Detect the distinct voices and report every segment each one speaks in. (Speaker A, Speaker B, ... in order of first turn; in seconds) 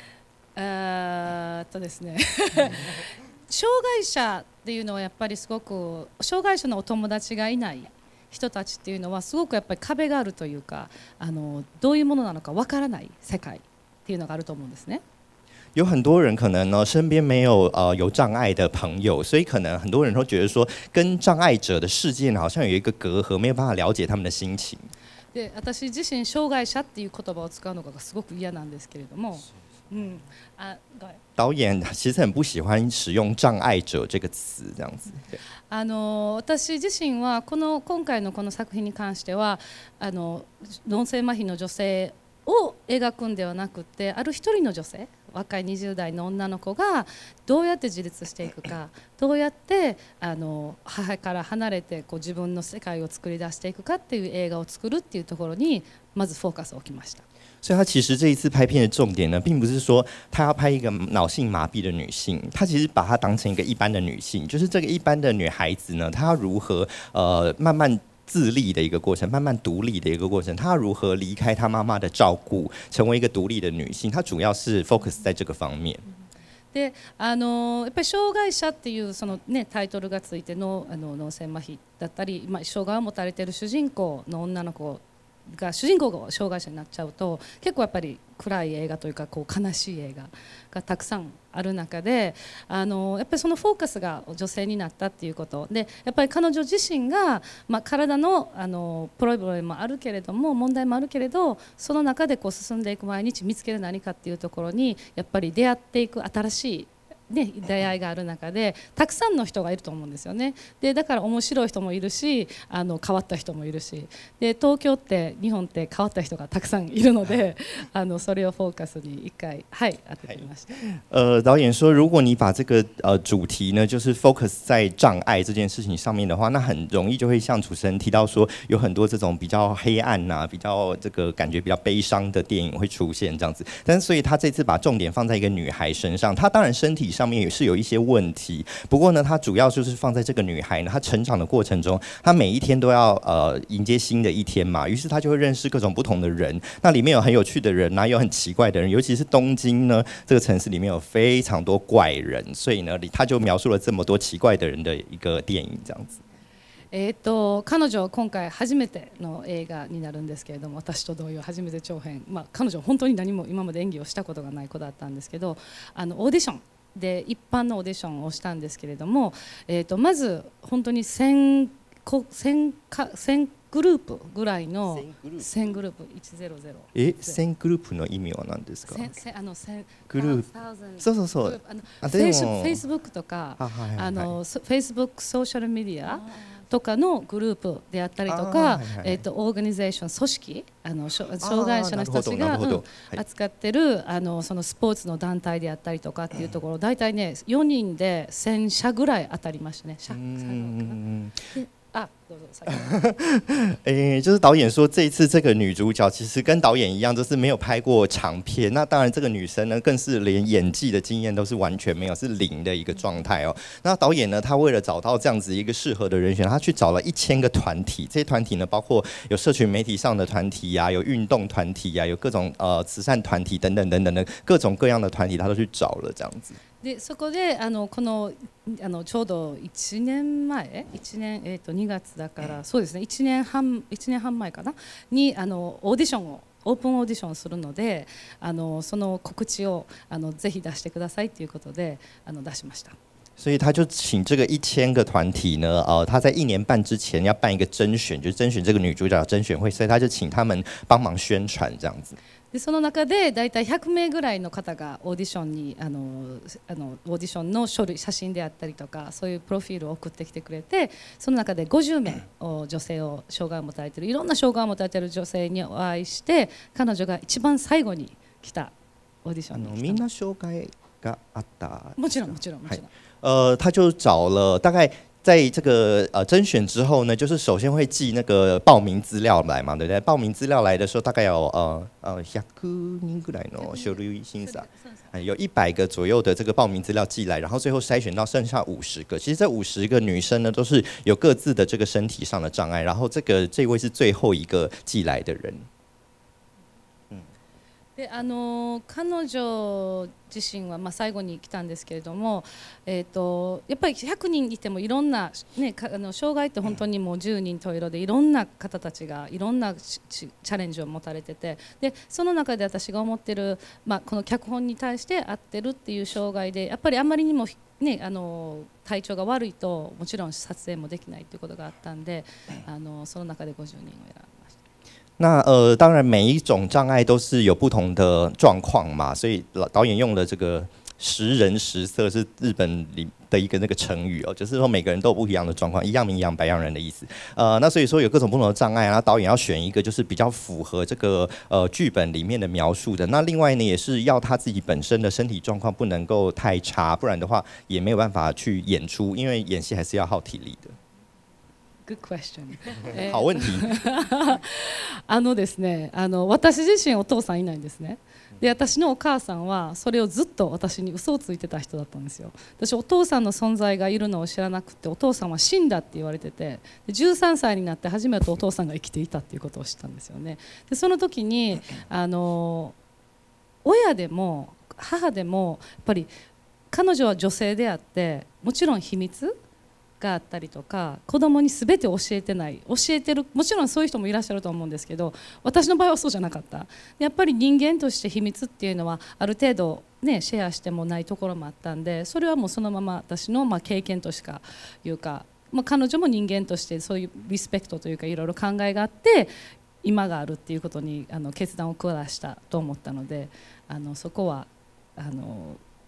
Speaker A: 0.5-15.0, 25.3-31.2, 35.7-57.2, 76.7-120.8, 156.9-177.4, 178.8-203.0, 226.8-242.9, 252.5-268.7, 269.2-270.0, 272.0-272.9, 283.5-285.2, 297.9-324.5, 351.8-372.7, 373.6-376.1, 376.7-379.3, 380.0-399.3, 399.8-405.6
Speaker B: 15.7-24.9, 31.4-35.4, 57.6-76.0, 120.2-156.2, 174.9-175.7, 176.9-179.1, 180.1-180.4, 181.0-182.8, 183.6-184.3, 188.3-189.2, 191.4-193.2, 200.1-201.4, 202.9-226.6, 243.4-252.2, 269.5-295.6, 325.2-350.8, 352.9-353.7